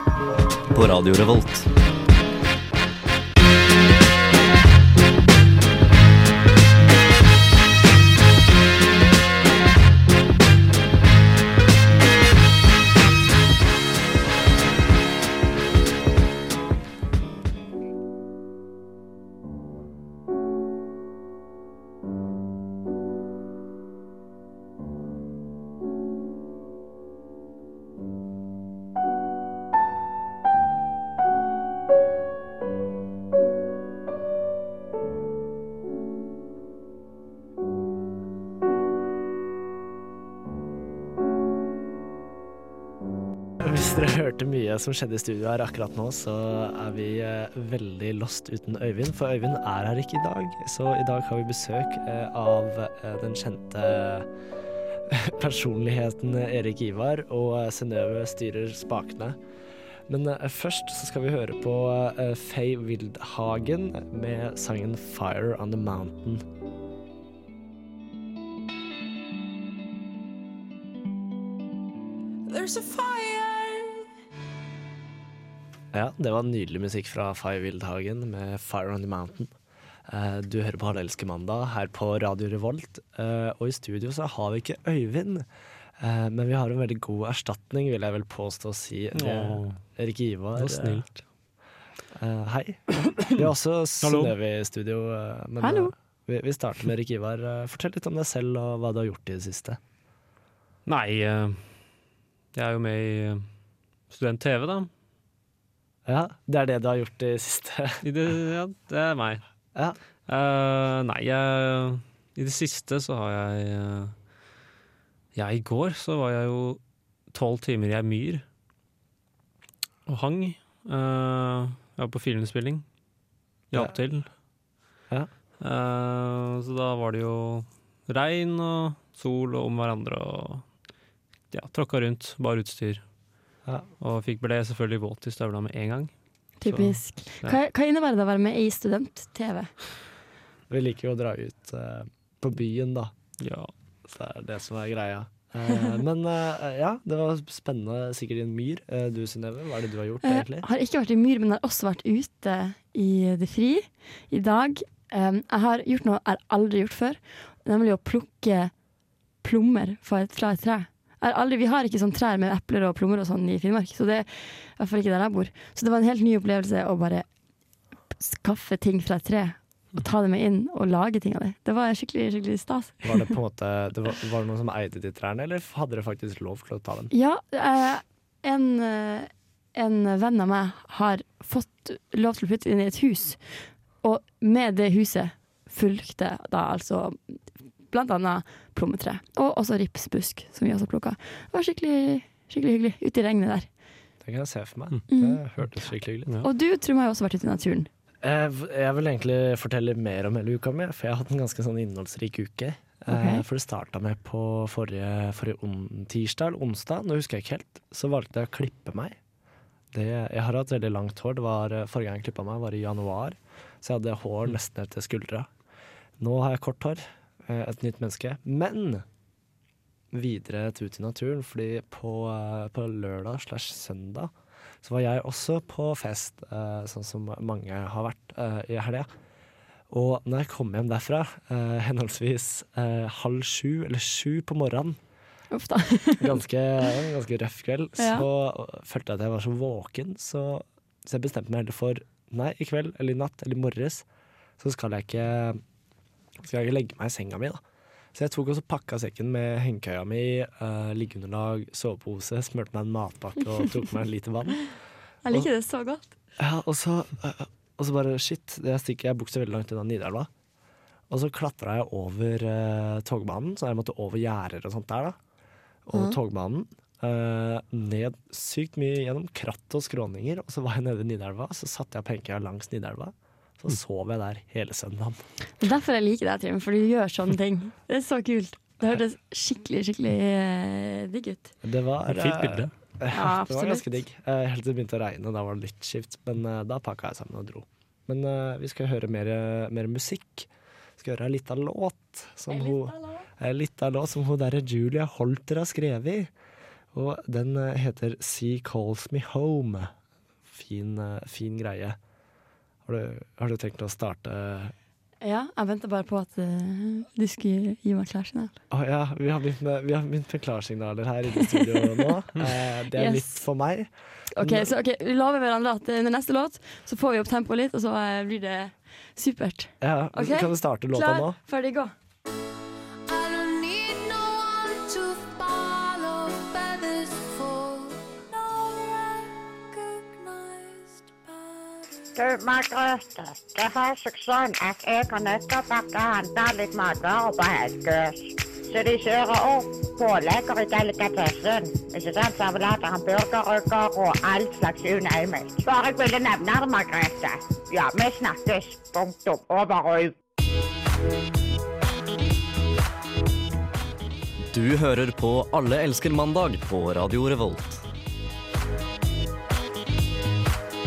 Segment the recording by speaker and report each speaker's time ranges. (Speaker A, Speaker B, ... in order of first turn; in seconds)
Speaker A: 0.7-1.7, 354.5-357.8
Speaker B: 43.6-54.3, 55.0-59.4, 60.1-66.4, 75.9-79.5, 80.1-85.5, 86.0-91.0, 92.1-99.8, 106.0-108.0, 140.7-143.1, 144.1-150.7, 173.0-177.1, 194.2-196.3, 198.2-209.2, 209.9-215.5, 216.2-219.0, 220.1-229.1, 229.9-235.0, 236.2-244.1, 244.6-245.6, 246.4-247.6, 248.1-254.7, 256.4-260.3, 261.1-265.2, 265.8-275.2, 281.6-296.3, 296.9-299.9, 300.5-302.0, 302.9-304.7, 308.7-314.7, 319.8-321.4
Speaker C: 72.5-74.1, 323.1-332.1
Speaker D: 89.1-89.8, 90.5-91.2, 94.0-94.3, 100.8-101.8, 102.5-103.5, 104.1-104.9, 108.0-109.4, 110.3-114.1, 115.3-118.4, 120.0-122.8, 123.7-124.3, 125.6-130.6, 131.5-133.0, 134.0-137.6, 143.4-143.7, 282.1-282.7
Speaker E: 95.6-95.9, 136.6-139.7, 150.2-158.7, 159.4-167.2, 168.2-173.3, 177.1-193.7, 195.1-195.4, 196.4-197.9, 203.1-203.4, 235.5-236.4, 238.0-238.2, 255.2-256.1, 275.6-281.5, 283.1-283.9, 292.5-293.2, 305.2-308.6, 311.6-312.0, 312.9-313.4, 314.3-321.9
Speaker F: 332.2-350.1